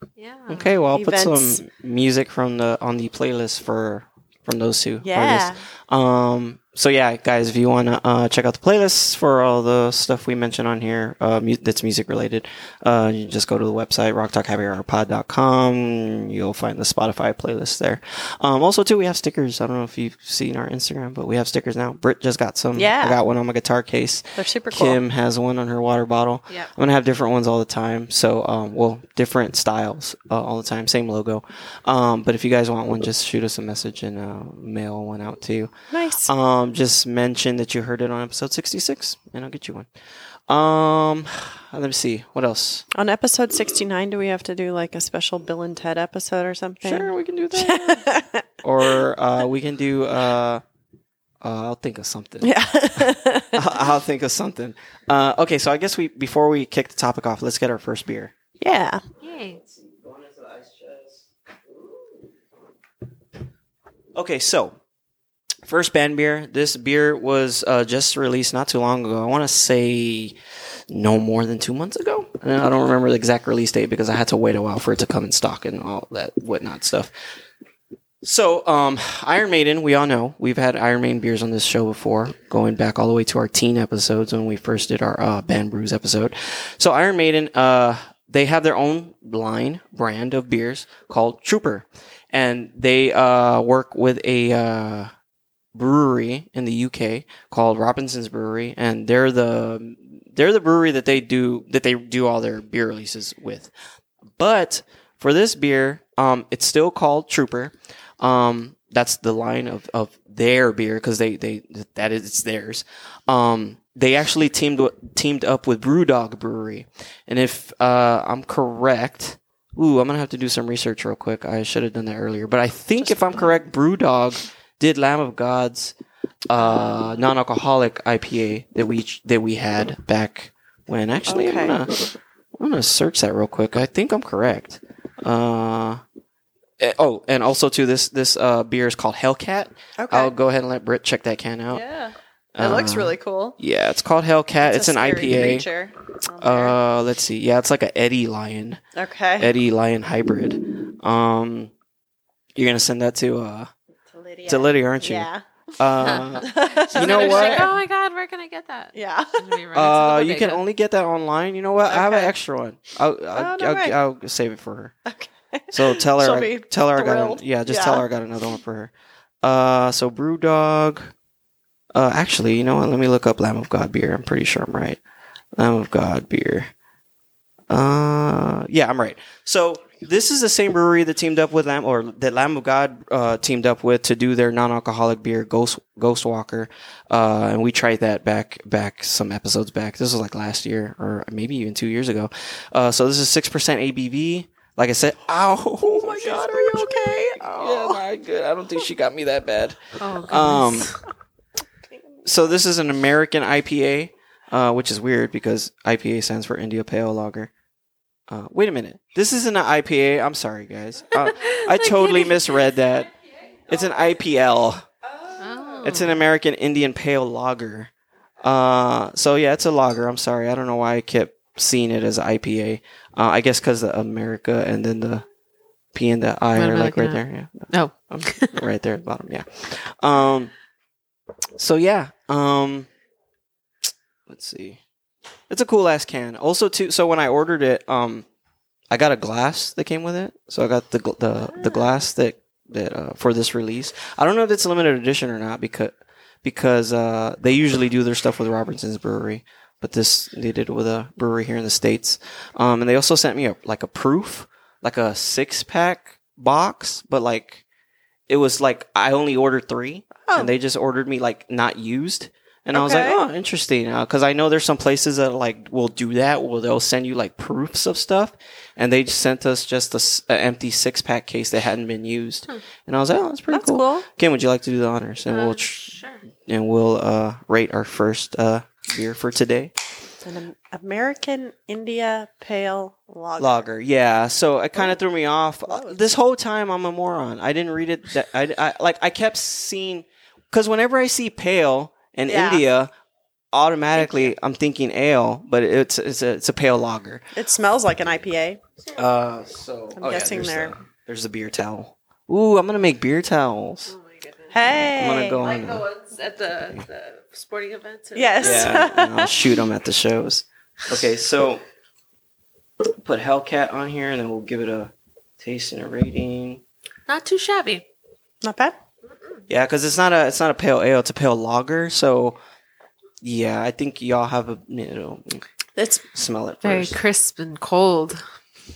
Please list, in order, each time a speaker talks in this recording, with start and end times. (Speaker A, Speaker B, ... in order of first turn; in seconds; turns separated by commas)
Speaker A: 0.2-0.8, Speaker B: 0.5-35.7, Speaker C: 0.9-1.6, Speaker C: 5.0-5.6, Speaker C: 22.8-23.2, Speaker C: 24.4-25.0, Speaker C: 35.9-36.3, Speaker B: 36.3-39.9, Speaker B: 40.5-42.9, Speaker C: 43.0-48.5, Speaker B: 46.8-48.0, Speaker B: 48.6-50.6, Speaker B: 51.4-58.3, Speaker C: 52.4-53.7, Speaker C: 58.6-59.0, Speaker A: 59.2-59.6, Speaker B: 59.6-61.3, Speaker B: 64.2-64.8, Speaker B: 65.7-70.4, Speaker B: 70.9-77.1, Speaker B: 78.2-95.1, Speaker B: 95.8-103.7, Speaker B: 104.4-126.0, Speaker C: 123.1-123.5, Speaker B: 126.5-132.0, Speaker C: 131.3-131.8, Speaker B: 132.6-136.0, Speaker B: 136.8-141.8, Speaker C: 140.0-140.3, Speaker C: 141.7-143.6, Speaker B: 142.6-145.7, Speaker C: 144.6-146.8, Speaker B: 146.4-148.8, Speaker C: 149.0-149.5, Speaker B: 149.4-151.7, Speaker B: 152.6-153.7, Speaker C: 154.1-155.4, Speaker B: 154.5-157.8, Speaker A: 156.0-160.6, Speaker C: 156.1-157.7, Speaker C: 158.9-159.6, Speaker B: 159.7-164.9, Speaker C: 161.9-162.3, Speaker C: 163.3-164.0, Speaker C: 165.1-168.1, Speaker B: 165.7-168.9, Speaker B: 169.4-171.1, Speaker B: 171.9-175.0, Speaker B: 175.6-176.7, Speaker B: 177.7-200.9, Speaker C: 195.8-198.0, Speaker A: 200.0-201.0, Speaker C: 201.9-202.3, Speaker B: 202.2-207.5, Speaker B: 208.3-213.1, Speaker A: 211.2-212.5, Speaker B: 213.7-214.9, Speaker C: 215.2-215.9, Speaker A: 215.4-216.2, Speaker B: 215.8-217.9, Speaker B: 218.4-225.2, Speaker B: 225.9-230.5, Speaker A: 226.6-228.7, Speaker B: 231.6-232.9, Speaker B: 234.3-234.8, Speaker B: 235.5-238.3, Speaker B: 238.9-257.6, Speaker B: 258.3-279.7, Speaker C: 260.3-260.5, Speaker C: 262.7-263.2, Speaker C: 273.5-274.1, Speaker A: 275.3-276.2, Speaker C: 280.2-283.6, Speaker B: 283.4-292.9, Speaker C: 285.7-286.0, Speaker C: 292.3-292.6, Speaker B: 293.5-297.3, Speaker C: 297.4-298.6, Speaker B: 298.9-303.9, Speaker C: 300.0-300.7, Speaker A: 303.9-304.8, Speaker C: 304.5-305.4, Speaker B: 304.9-305.9, Speaker A: 305.4-308.8, Speaker C: 308.1-309.6, Speaker B: 308.4-311.6, Speaker B: 313.0-316.6, Speaker A: 317.1-317.9, Speaker C: 318.4-318.8, Speaker B: 319.5-322.4, Speaker B: 323.2-325.4, Speaker C: 325.8-326.0, Speaker B: 326.1-327.0, Speaker A: 326.6-328.2